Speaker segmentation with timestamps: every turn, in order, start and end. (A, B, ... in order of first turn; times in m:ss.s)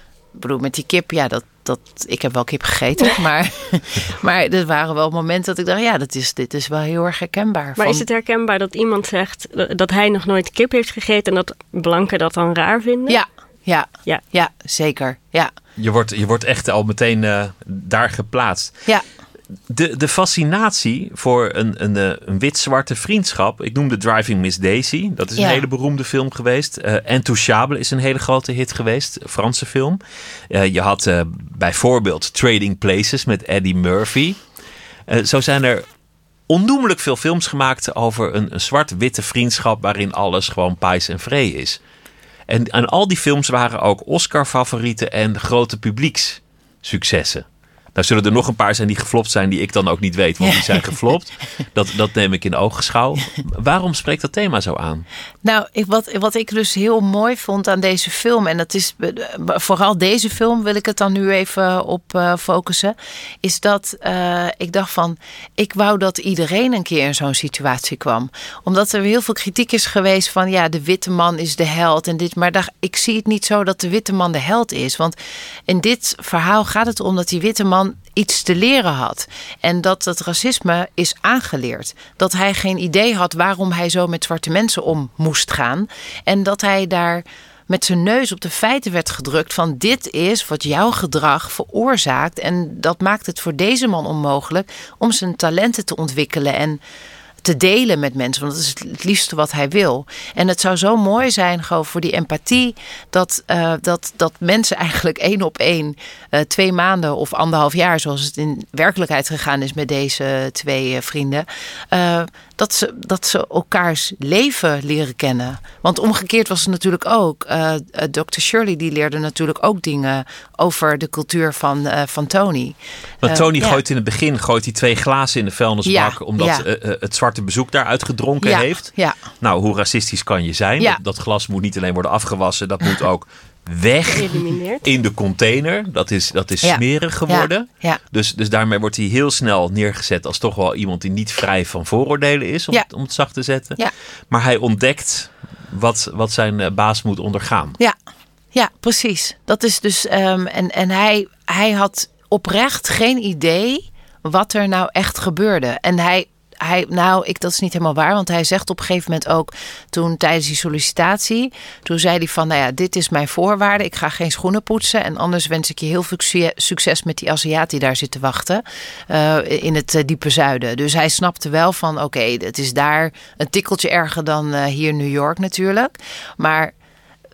0:00.3-0:08.0 A
0:07.8-0:13.2 B
0:13.1-0:15.5 A
0:15.8-0:18.7 C
0:19.7-0:34.4 C
0:25.4-0:25.6 A
0:35.1-0:35.8 C
0:36.5-0:41.8 C
0:42.5-0:55.1 C
0:50.4-0:51.0 A
0:55.4-1:15.2 A
1:15.7-1:36.8 A
1:37.4-2:03.8 A
2:03.2-2:23.8 C
2:05.8-2:06.6 A
2:08.4-2:09.2 A
2:14.1-2:14.8 B
2:16.6-2:18.0 A
2:24.3-2:27.8 C
2:28.5-2:56.7 A